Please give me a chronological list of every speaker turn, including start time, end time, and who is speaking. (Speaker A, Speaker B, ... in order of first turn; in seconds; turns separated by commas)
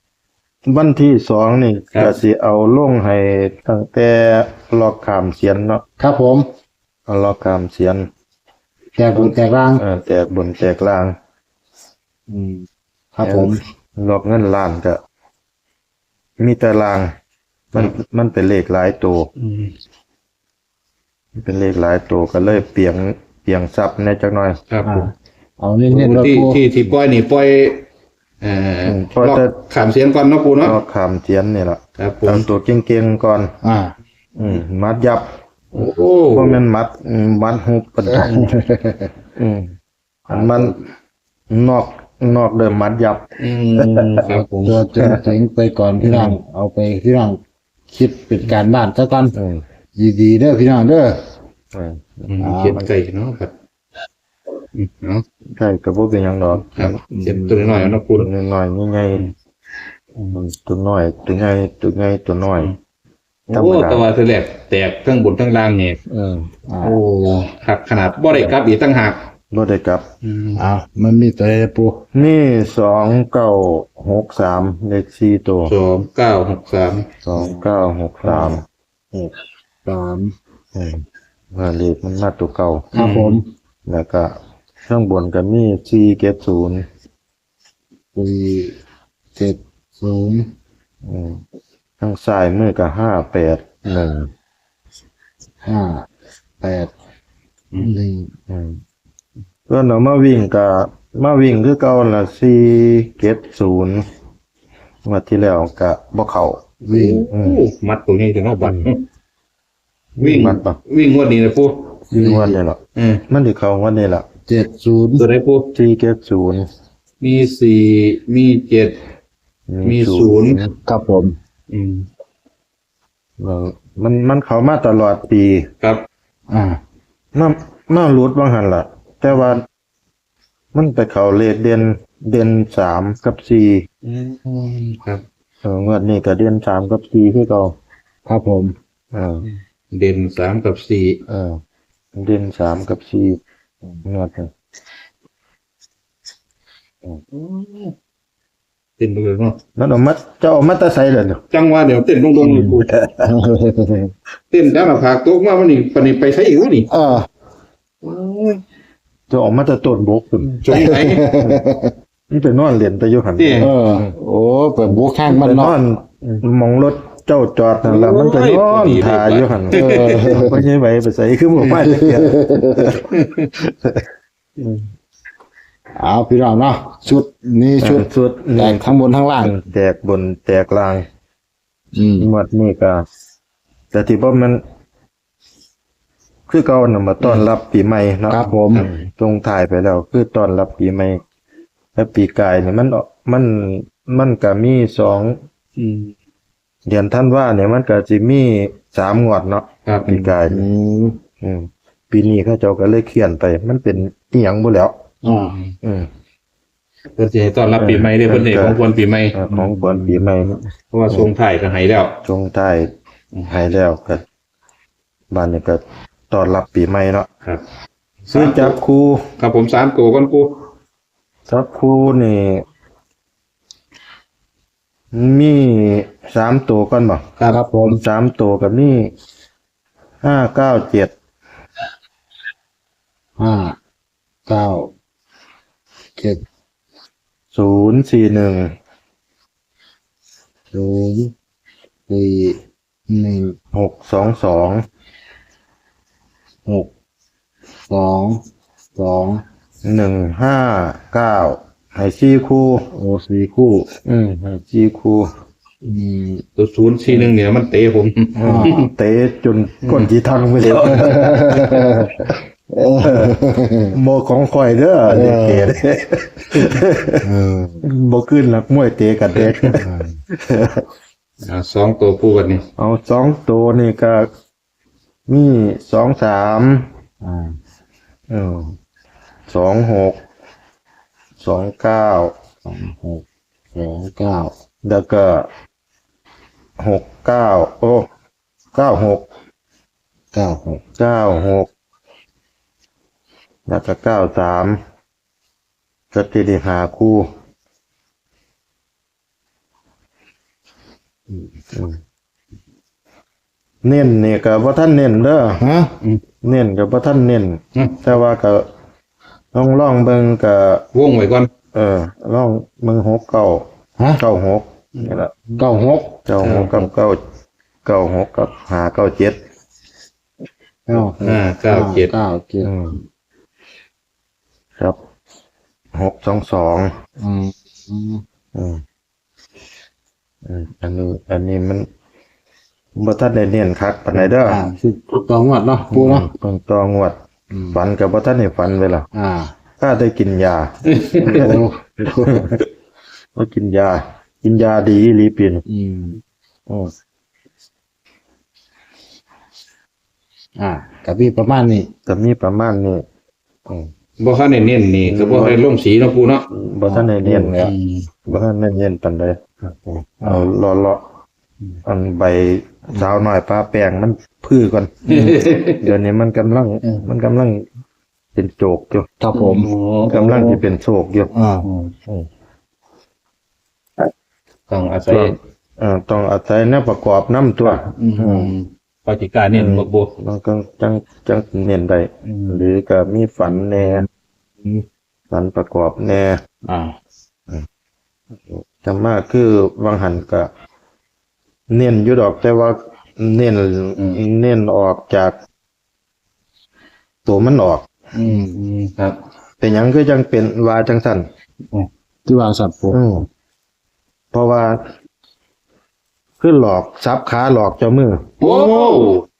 Speaker A: 0.7-5.8, Speaker B: 1.9-2.2, Speaker C: 6.0-6.5, Speaker A: 7.1-8.1, Speaker C: 8.9-9.8, Speaker A: 9.1-11.1, Speaker C: 12.3-13.6, Speaker A: 13.2-15.0, Speaker A: 16.4-17.1, Speaker A: 17.7-19.3, Speaker B: 19.4-19.7, Speaker A: 21.4-24.6, Speaker B: 24.7-25.1, Speaker C: 24.8-26.6, Speaker B: 25.9-27.9, Speaker B: 28.4-30.8, Speaker A: 28.8-29.6, Speaker A: 30.6-33.5, Speaker B: 32.0-32.5, Speaker C: 33.6-34.0, Speaker A: 34.4-35.3, Speaker B: 35.7-36.6, Speaker A: 36.3-38.5, Speaker C: 38.1-39.1, Speaker A: 39.4-39.7, Speaker A: 40.3-40.8, Speaker C: 40.3-40.8, Speaker A: 41.5-43.2, Speaker B: 43.4-44.8, Speaker A: 43.8-44.3, Speaker C: 44.2-49.4, Speaker A: 45.0-45.3, Speaker A: 46.0-46.4, Speaker A: 49.3-49.6, Speaker C: 50.0-51.2, Speaker A: 51.7-52.3, Speaker B: 52.3-53.5, Speaker C: 52.4-52.8, Speaker B: 54.8-55.2, Speaker A: 55.5-57.1, Speaker B: 56.6-58.3, Speaker C: 57.1-57.7, Speaker A: 57.6-59.2, Speaker A: 60.3-62.7, Speaker A: 63.5-64.0, Speaker B: 63.5-66.0, Speaker A: 66.1-66.5, Speaker C: 66.7-67.0, Speaker B: 66.8-69.2, Speaker A: 68.3-68.6, Speaker A: 69.5-70.1, Speaker B: 70.2-70.6, Speaker C: 70.6-72.0, Speaker A: 72.1-75.7, Speaker B: 75.7-77.0, Speaker A: 77.3-78.6, Speaker C: 77.3-77.6, Speaker C: 78.2-79.3, Speaker C: 79.8-80.3, Speaker A: 80.8-81.0, Speaker A: 81.5-82.9, Speaker C: 82.9-83.4, Speaker B: 83.0-83.4, Speaker A: 83.9-84.3, Speaker A: 84.9-86.8, Speaker C: 88.1-88.8, Speaker C: 89.3-90.5, Speaker A: 91.0-91.4, Speaker A: 92.0-94.3, Speaker C: 95.6-96.1, Speaker C: 96.6-96.9, Speaker C: 97.8-98.3, Speaker A: 98.5-98.8, Speaker A: 99.7-104.0, Speaker A: 105.0-106.6, Speaker C: 106.8-107.3, Speaker B: 106.9-109.0, Speaker A: 107.3-107.6, Speaker A: 108.6-108.9, Speaker A: 110.2-110.8, Speaker B: 110.2-111.9, Speaker A: 112.1-114.2, Speaker C: 112.2-112.6, Speaker B: 113.0-113.2, Speaker C: 114.5-115.3, Speaker B: 115.2-115.7, Speaker A: 115.7-116.7, Speaker B: 117.2-119.0, Speaker A: 119.7-120.7, Speaker B: 119.8-120.6, Speaker C: 120.9-121.4, Speaker B: 121.7-122.1, Speaker A: 123.4-125.7, Speaker C: 126.5-126.8, Speaker A: 127.3-129.6, Speaker A: 130.7-133.8, Speaker B: 134.0-135.2, Speaker A: 135.6-137.8, Speaker C: 138.3-138.7, Speaker A: 139.1-139.5, Speaker B: 139.4-141.2, Speaker A: 141.3-141.6, Speaker A: 142.2-143.4, Speaker A: 144.1-144.5, Speaker B: 147.3-147.9, Speaker B: 149.0-149.6, Speaker A: 149.8-151.4, Speaker B: 151.5-152.9, Speaker A: 152.4-153.3, Speaker C: 153.2-154.1, Speaker B: 154.5-156.9, Speaker C: 156.9-157.3, Speaker B: 158.0-158.6, Speaker A: 159.3-161.6, Speaker B: 160.5-161.2, Speaker C: 160.7-161.9, Speaker A: 162.3-164.1, Speaker B: 163.4-163.7, Speaker C: 163.6-165.8, Speaker A: 165.3-174.0, Speaker B: 167.8-170.3, Speaker C: 169.7-170.6, Speaker C: 171.9-172.8, Speaker B: 173.1-173.5, Speaker C: 176.0-178.1, Speaker A: 177.8-181.1, Speaker C: 178.6-179.6, Speaker C: 181.9-182.3, Speaker A: 182.2-183.0, Speaker A: 183.9-184.6, Speaker A: 186.5-191.2, Speaker B: 187.2-187.5, Speaker C: 188.3-188.9, Speaker A: 191.9-195.4, Speaker B: 195.8-196.1, Speaker A: 196.9-200.7, Speaker B: 199.9-200.3, Speaker C: 200.5-201.2, Speaker A: 201.4-204.9, Speaker C: 205.2-205.6, Speaker B: 207.2-209.4, Speaker A: 207.8-208.8, Speaker A: 209.3-210.5, Speaker C: 209.5-210.3, Speaker B: 210.9-212.2, Speaker A: 212.2-212.9, Speaker A: 213.5-214.2, Speaker A: 215.3-217.3, Speaker B: 218.3-218.8, Speaker A: 218.3-219.3, Speaker B: 219.4-220.7, Speaker A: 221.5-222.6, Speaker A: 225.1-227.2, Speaker C: 227.5-228.0, Speaker A: 227.8-229.1, Speaker A: 230.2-231.1, Speaker C: 233.4-233.8, Speaker C: 234.5-234.9, Speaker C: 236.2-236.4, Speaker A: 237.5-238.7, Speaker C: 240.7-241.3, Speaker C: 242.1-242.6, Speaker C: 243.1-243.6, Speaker A: 243.7-244.8, Speaker C: 247.9-248.4, Speaker C: 248.9-249.4, Speaker A: 249.8-252.9, Speaker C: 252.9-253.9, Speaker A: 254.1-255.3, Speaker C: 255.8-256.4, Speaker B: 256.6-258.9, Speaker A: 258.4-262.4, Speaker C: 258.4-258.8, Speaker B: 260.6-261.1, Speaker C: 261.1-261.9, Speaker C: 262.8-263.9, Speaker A: 263.0-263.4, Speaker A: 263.9-267.2, Speaker C: 265.1-265.8, Speaker C: 267.2-267.8, Speaker A: 267.8-270.8, Speaker B: 269.3-269.8, Speaker C: 269.8-270.2, Speaker B: 271.4-272.7, Speaker A: 272.8-274.2, Speaker A: 275.3-276.9, Speaker C: 277.2-277.6, Speaker A: 278.3-278.8, Speaker A: 279.5-280.2, Speaker A: 281.4-282.3, Speaker C: 282.6-283.2, Speaker C: 283.7-284.5, Speaker A: 284.8-285.5, Speaker A: 286.8-288.1, Speaker A: 288.7-289.2, Speaker C: 290.3-290.8, Speaker A: 291.0-291.7, Speaker A: 293.7-294.8, Speaker A: 296.1-297.3, Speaker A: 301.7-302.0, Speaker A: 303.8-305.6, Speaker C: 305.6-305.9, Speaker A: 306.4-308.7, Speaker B: 307.8-308.0, Speaker A: 309.5-310.9, Speaker B: 310.9-311.5, Speaker A: 311.7-313.7, Speaker A: 314.2-315.4, Speaker B: 315.0-315.6, Speaker C: 315.6-316.2, Speaker A: 316.3-317.2, Speaker B: 316.4-316.9, Speaker A: 317.9-319.4, Speaker C: 320.9-322.7, Speaker B: 321.2-322.1, Speaker A: 322.6-323.0, Speaker A: 325.9-326.9, Speaker C: 327.2-328.2, Speaker A: 328.6-328.8, Speaker A: 330.4-331.9, Speaker A: 332.9-334.6, Speaker C: 334.4-336.3, Speaker A: 335.9-337.2, Speaker C: 337.5-337.8, Speaker A: 337.7-339.1, Speaker C: 339.1-339.5, Speaker A: 339.8-342.6, Speaker B: 340.9-341.3, Speaker C: 341.3-342.5, Speaker A: 343.4-345.6, Speaker C: 345.7-346.2, Speaker C: 350.6-351.9, Speaker A: 352.1-353.0, Speaker B: 354.2-356.5, Speaker A: 355.0-355.6, Speaker A: 356.5-357.6, Speaker C: 356.9-357.7, Speaker B: 357.6-358.1, Speaker A: 358.3-361.0, Speaker C: 360.2-360.5, Speaker A: 361.9-367.7, Speaker B: 365.1-365.9, Speaker A: 368.4-369.1, Speaker C: 369.2-369.7, Speaker B: 369.3-370.6, Speaker A: 370.1-371.3, Speaker C: 371.3-371.7, Speaker B: 371.6-371.9, Speaker B: 374.7-375.4, Speaker A: 375.1-378.5, Speaker B: 377.6-380.1, Speaker A: 379.5-384.1, Speaker B: 382.2-382.7, Speaker C: 383.6-384.1, Speaker A: 385.3-386.4, Speaker C: 386.6-386.9, Speaker A: 388.5-390.5, Speaker A: 391.7-395.4, Speaker B: 394.0-394.2, Speaker A: 397.3-397.8, Speaker B: 398.1-399.2, Speaker C: 398.2-398.6, Speaker A: 399.6-401.2, Speaker C: 402.3-403.0, Speaker A: 402.9-403.3, Speaker A: 404.3-404.8, Speaker A: 406.4-408.3, Speaker C: 408.4-409.1, Speaker B: 408.4-409.2